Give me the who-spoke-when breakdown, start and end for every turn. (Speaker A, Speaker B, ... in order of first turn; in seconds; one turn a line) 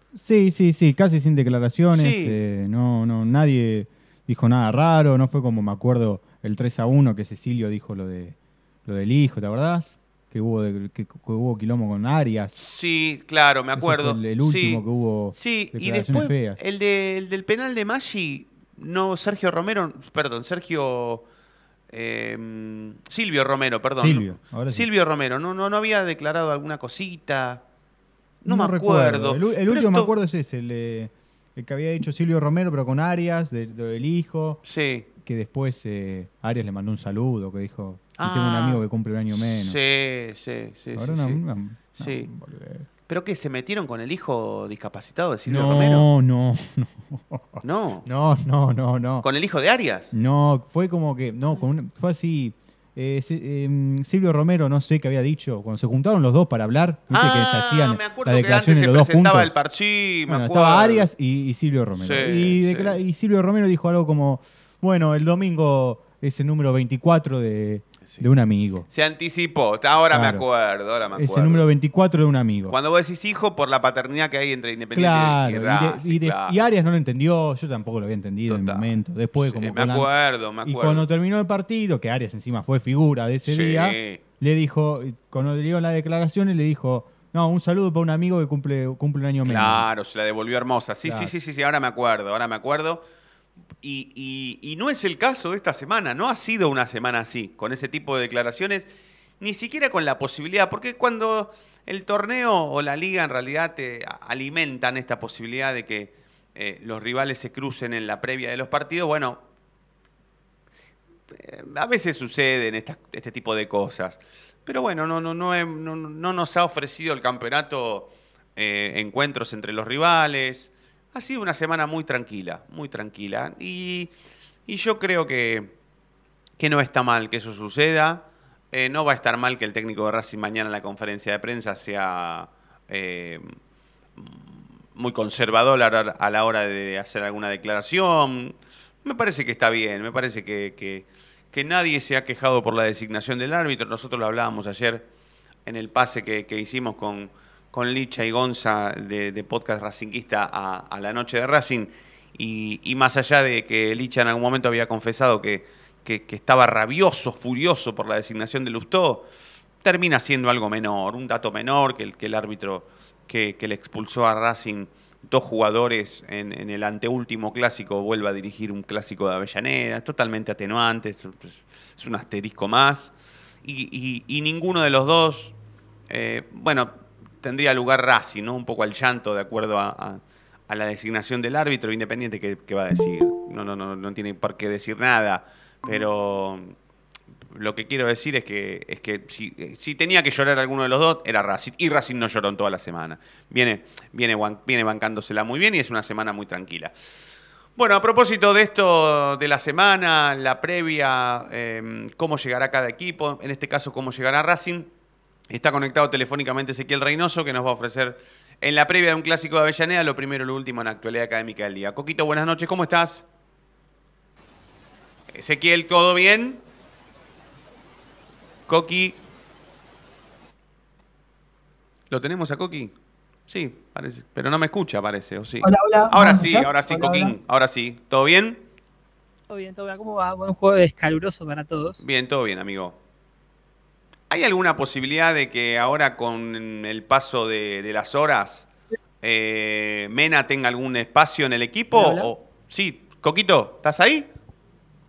Speaker A: 0.1-12.6
Speaker B: 1.9-2.4
Speaker B: 12.6-21.2
Speaker A: 13.8-16.6
Speaker B: 21.9-27.6
Speaker A: 24.0-24.9
Speaker B: 28.4-30.1
Speaker A: 28.4-34.6
Speaker B: 34.6-35.0
Speaker A: 35.2-39.8
Speaker B: 38.2-38.8
Speaker B: 39.3-41.4
Speaker A: 41.0-42.9
Speaker B: 42.0-42.3
Speaker B: 43.1-46.1
Speaker A: 45.5-49.2
Speaker B: 47.6-48.0
Speaker B: 49.2-50.1
Speaker A: 50.1-59.5
Speaker B: 57.1-61.1
Speaker A: 60.3-68.9
Speaker B: 62.0-63.0
Speaker B: 68.9-71.7
Speaker A: 70.1-70.4
Speaker A: 71.1-72.8
Speaker B: 72.7-76.6
Speaker A: 74.9-80.1
Speaker B: 78.5-81.0
Speaker A: 80.6-89.9
Speaker B: 83.5-84.2
Speaker B: 89.4-93.0
Speaker A: 91.0-91.3
Speaker B: 93.8-98.9
Speaker B: 99.4-109.4
Speaker B: 111.3-124.1
Speaker B: 124.7-125.7
Speaker B: 126.6-133.5
Speaker B: 134.2-145.0
Speaker B: 145.7-159.3
Speaker B: 159.8-173.1
Speaker B: 173.6-175.5
Speaker B: 176.1-186.7
Speaker B: 187.5-196.9
Speaker B: 197.8-204.9
Speaker B: 205.5-213.2
Speaker B: 215.3-216.6
Speaker B: 218.7-219.2
Speaker B: 222.1-222.9
Speaker B: 223.5-228.6
Speaker C: 225.6-227.3
Speaker C: 229.5-232.0
Speaker B: 232.0-232.9
Speaker B: 234.3-238.7
Speaker B: 239.2-244.3
Speaker C: 241.9-242.3